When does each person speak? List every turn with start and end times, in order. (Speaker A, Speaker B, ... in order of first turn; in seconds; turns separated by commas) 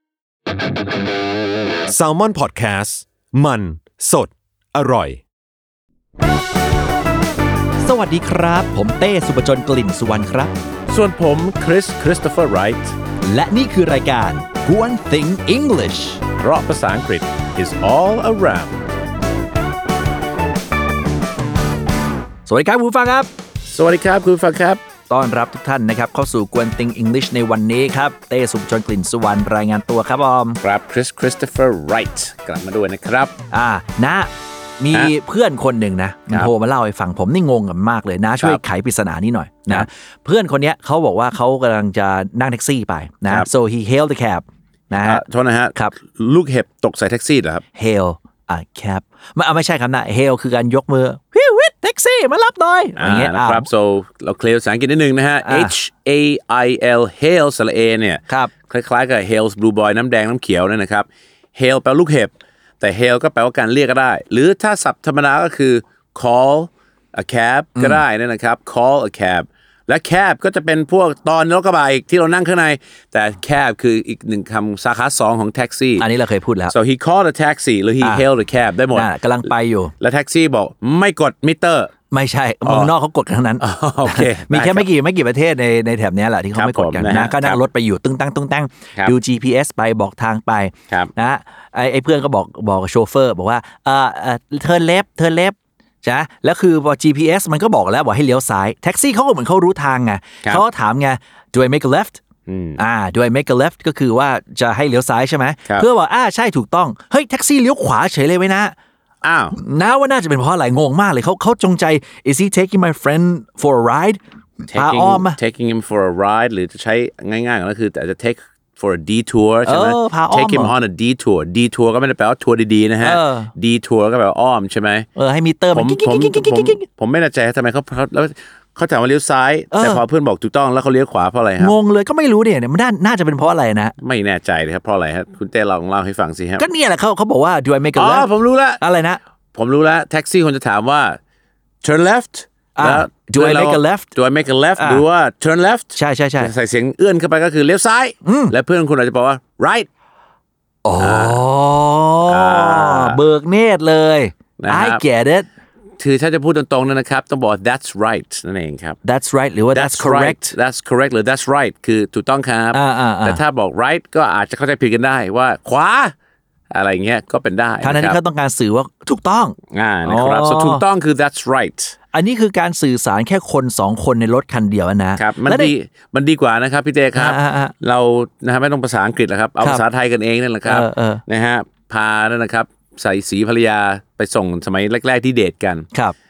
Speaker A: 1.9-5.2, Speaker B: 7.8-10.5, Speaker C: 10.9-12.9, Speaker B: 13.2-16.2, Speaker C: 16.4-18.8, Speaker B: 22.5-23.3, Speaker C: 23.7-24.8, Speaker B: 25.1-30.6, Speaker C: 30.6-33.3, Speaker B: 33.5-45.2, Speaker C: 45.0-47.6, Speaker B: 47.8-53.7, Speaker C: 53.0-76.1, Speaker B: 55.4-55.7, Speaker B: 67.8-68.0, Speaker B: 76.0-76.7, Speaker C: 76.7-79.1, Speaker B: 78.9-79.9, Speaker C: 80.0-81.9, Speaker B: 82.1-102.2, Speaker C: 82.7-82.9, Speaker C: 83.6-84.9, Speaker C: 86.5-87.6, Speaker C: 102.5-102.8, Speaker B: 102.8-108.7, Speaker C: 109.2-109.6, Speaker B: 109.5-115.4, Speaker C: 114.7-125.0, Speaker B: 119.7-120.7, Speaker B: 123.0-123.5, Speaker B: 125.2-126.8, Speaker C: 125.7-131.7, Speaker B: 129.7-130.0, Speaker B: 131.6-133.9, Speaker C: 134.0-136.7, Speaker B: 136.6-138.3, Speaker C: 137.9-138.8, Speaker B: 138.8-139.2, Speaker C: 139.5-141.2, Speaker C: 141.8-149.9, Speaker B: 142.8-144.1, Speaker B: 144.8-145.0, Speaker B: 145.9-146.5, Speaker B: 148.2-148.5, Speaker B: 150.8-155.5, Speaker C: 151.0-151.4, Speaker C: 152.2-153.2, Speaker C: 154.6-155.0, Speaker C: 156.0-159.0, Speaker B: 159.0-160.5, Speaker C: 159.7-166.1, Speaker B: 162.7-163.4, Speaker C: 166.7-168.2, Speaker B: 167.8-170.8, Speaker C: 169.7-172.0, Speaker B: 172.1-175.7, Speaker C: 175.2-185.9, Speaker B: 177.2-177.7, Speaker B: 180.7-181.2